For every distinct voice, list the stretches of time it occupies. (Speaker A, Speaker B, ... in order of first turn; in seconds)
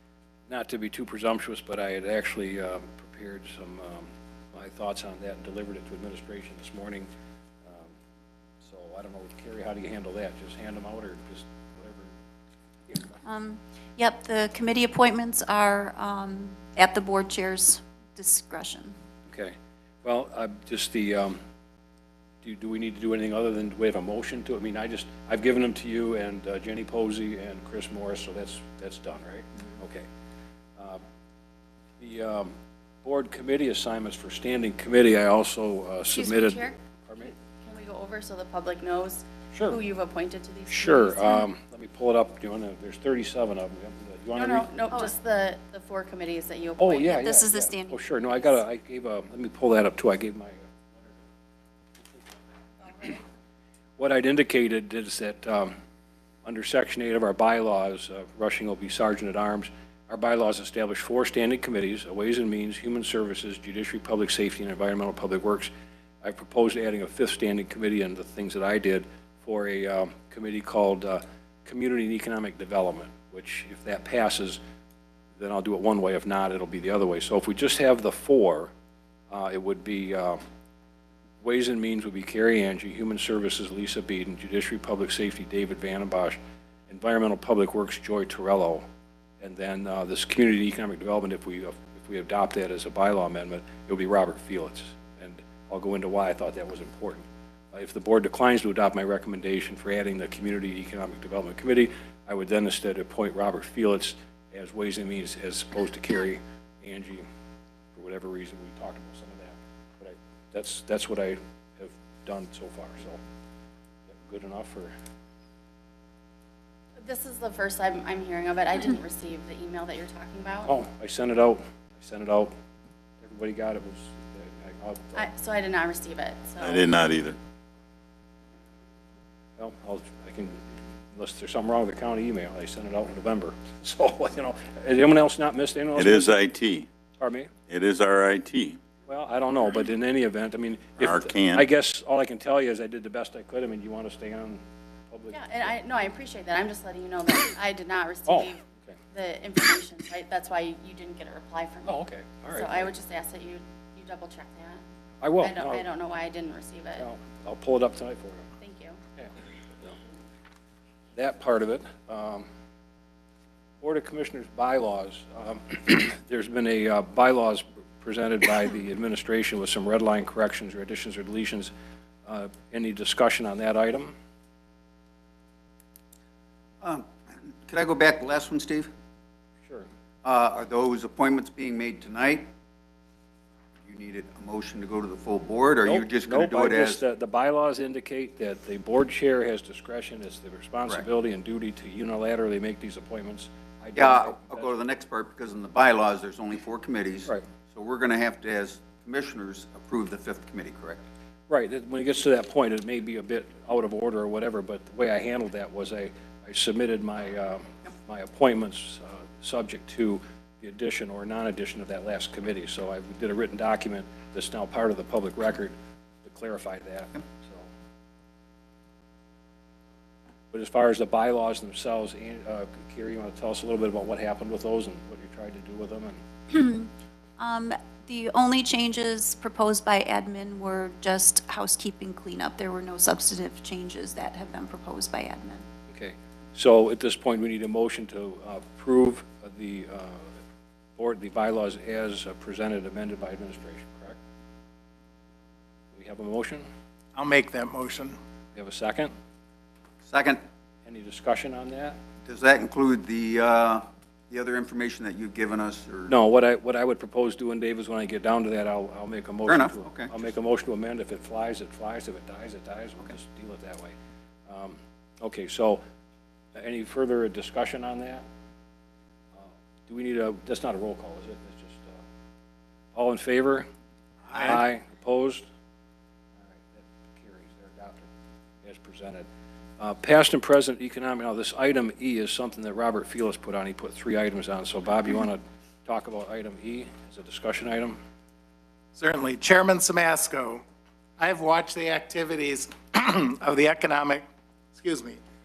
Speaker A: 0.5-7.1, 7.7-7.9, 8.6-12.1, 12.9-13.2, 19.2-21.4, 22.4-30.1, 30.8-31.0, 32.0-37.3, 39.5-39.8, 40.7-44.7, 46.8-50.6, 52.9-53.1, 54.0-55.7, 56.4-65.7, 66.2-74.6, 75.4-78.7, 79.3-80.4, 81.4-86.4, 86.9-88.8, 89.4-107.2, 107.9-113.2, 114.1-114.9, 120.7-122.5, 123.2-125.3, 129.6-130.6, 131.1-136.3, 137.2-137.5, 139.1-145.7, 148.3-148.9, 151.9-152.9, 155.2-155.8, 157.0-158.5, 161.2-162.5, 163.8-171.7, 172.2-174.1, 185.8-194.7, 201.5-217.7, 220.5-226.2, 235.9-240.3, 241.0-244.2, 245.9-246.7, 248.5-249.1, 250.8-252.0, 256.1-263.9, 264.5-265.8, 266.5-268.2, 269.4-272.0, 272.9-273.7, 274.3-275.4, 276.5-278.1, 278.6-279.2, 279.8-288.0
Speaker B: 13.2-18.9, 47.1-48.0, 226.5-235.6
Speaker C: 36.1-41.4, 44.3-47.2, 117.0-120.7, 125.1-126.8, 145.3-148.6, 149.1-152.0, 152.6-154.8, 155.4-157.0, 158.6-159.0
Speaker D: 126.6-127.4, 135.9-136.9, 137.7-138.8, 141.0-141.7
Speaker E: 176.8-178.9, 180.2-182.5, 183.8-187.0, 193.9-201.0, 250.0-250.4, 252.2-256.1, 259.4-260.1
Speaker F: 247.2-248.2, 274.3-274.6, 288.9-290.6, 291.2-295.2